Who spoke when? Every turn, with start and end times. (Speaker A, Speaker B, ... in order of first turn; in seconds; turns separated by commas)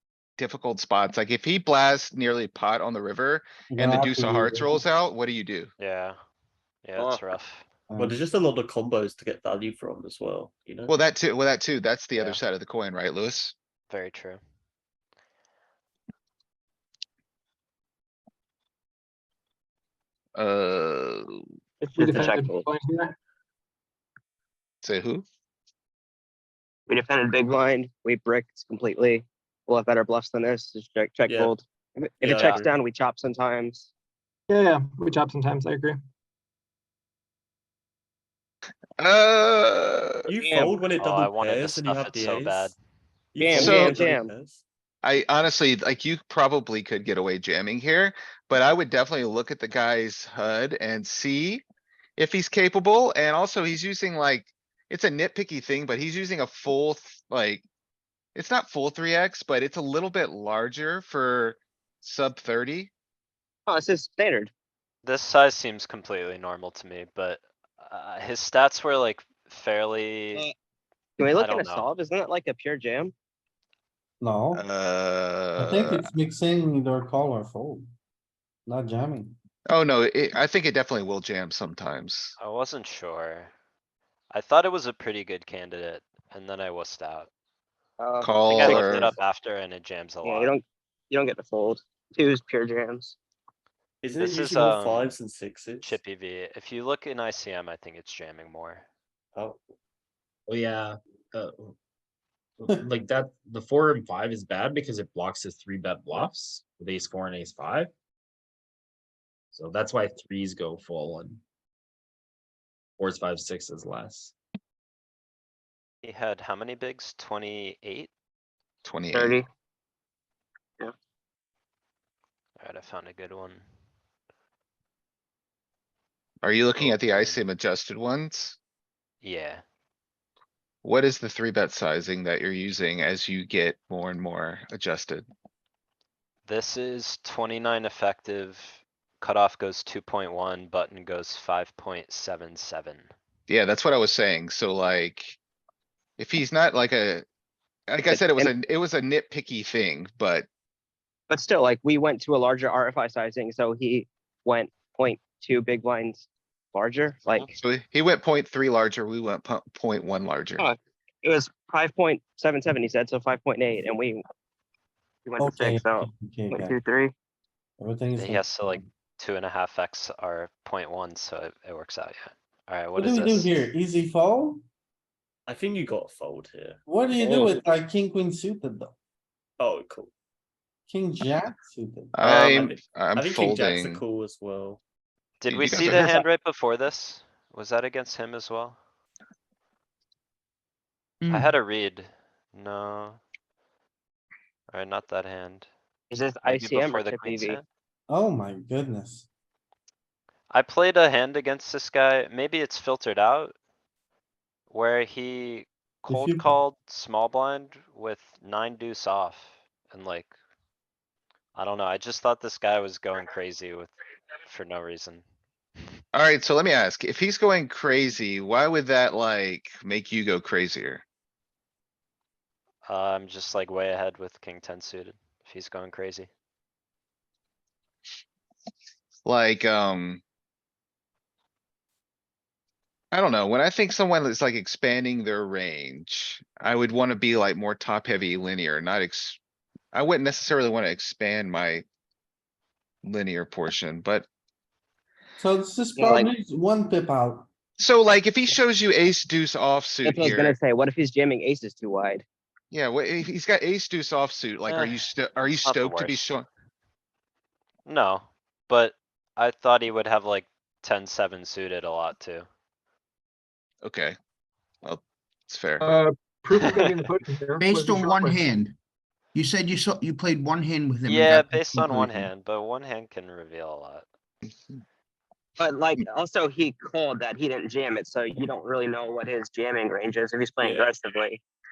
Speaker A: 0.4-5.7, Speaker B: 3.7-4.8, Speaker C: 5.8-6.2, Speaker C: 6.8-7.6, Speaker B: 7.9-8.2, Speaker D: 8.0-10.9, Speaker A: 10.9-13.5, Speaker C: 12.2-12.4, Speaker C: 13.9-14.4, Speaker A: 20.4-21.4, Speaker E: 21.8-22.7, Speaker F: 22.0-23.1, Speaker D: 22.0-22.4, Speaker A: 24.8-25.2, Speaker E: 26.9-33.9, Speaker D: 31.2-31.5, Speaker D: 32.2-32.6, Speaker C: 32.4-32.6, Speaker F: 34.5-36.0, Speaker A: 39.0-40.2, Speaker D: 40.3-42.8, Speaker E: 40.4-40.8, Speaker C: 41.0-42.8, Speaker D: 43.3-44.6, Speaker E: 43.4-44.3, Speaker A: 43.5-44.0, Speaker A: 45.0-51.6, Speaker A: 52.2-57.6, Speaker A: 58.3-62.9, Speaker E: 63.7-64.5, Speaker C: 65.0-70.5, Speaker E: 71.2-73.1, Speaker C: 71.3-71.9, Speaker B: 74.2-74.6, Speaker A: 74.5-76.1, Speaker B: 75.6-77.8, Speaker B: 78.7-79.3, Speaker A: 79.7-82.3, Speaker C: 82.4-83.5, Speaker C: 84.3-87.3, Speaker E: 88.0-89.1, Speaker A: 88.2-89.1, Speaker C: 88.5-90.5, Speaker E: 90.2-93.2, Speaker D: 94.0-96.0, Speaker C: 94.1-95.1, Speaker C: 95.8-98.8, Speaker D: 99.3-99.6, Speaker G: 100.5-101.7, Speaker G: 102.6-107.9, Speaker G: 109.5-111.4, Speaker G: 113.0-114.3, Speaker C: 116.0-118.1, Speaker A: 118.8-119.4, Speaker E: 119.1-119.5, Speaker C: 122.6-123.6, Speaker A: 126.4-128.6, Speaker C: 126.8-127.4, Speaker C: 129.2-129.6, Speaker A: 130.8-135.3, Speaker C: 136.4-143.1, Speaker A: 143.5-145.4, Speaker A: 146.2-147.2, Speaker A: 147.9-150.5, Speaker E: 148.1-148.5, Speaker E: 151.3-157.5, Speaker A: 157.6-160.6, Speaker E: 160.6-164.2, Speaker E: 165.2-167.1, Speaker B: 165.4-166.7, Speaker B: 167.8-168.8, Speaker C: 168.2-173.5, Speaker B: 172.9-174.6, Speaker D: 175.4-176.8, Speaker B: 176.8-178.9, Speaker E: 177.2-177.5, Speaker D: 179.6-180.1, Speaker B: 180.9-182.1, Speaker A: 182.1-184.0, Speaker D: 182.2-184.8, Speaker C: 185.4-188.8, Speaker A: 185.5-186.1, Speaker E: 185.9-186.2, Speaker H: 191.2-191.5, Speaker C: 191.3-193.2, Speaker C: 194.7-195.7, Speaker E: 196.1-197.6, Speaker C: 196.4-197.6, Speaker B: 198.1-199.2, Speaker C: 200.5-203.5, Speaker C: 204.7-210.3, Speaker B: 206.1-206.5, Speaker C: 211.5-213.9, Speaker C: 214.4-215.2, Speaker A: 216.1-221.0, Speaker C: 222.8-226.3, Speaker A: 229.2-230.2, Speaker A: 233.1-239.4, Speaker A: 239.9-241.8, Speaker A: 243.0-244.3, Speaker B: 245.4-247.5, Speaker E: 245.9-246.3, Speaker A: 247.8-250.6, Speaker E: 250.0-252.2, Speaker A: 252.7-256.5, Speaker C: 254.7-255.0, Speaker C: 255.6-256.2, Speaker C: 257.9-262.5, Speaker A: 263.8-264.2, Speaker A: 264.8-265.9, Speaker F: 265.8-268.5, Speaker C: 266.5-266.9, Speaker H: 267.6-268.8, Speaker H: 269.3-272.3, Speaker C: 271.1-274.0, Speaker E: 275.6-281.4, Speaker D: 280.6-280.9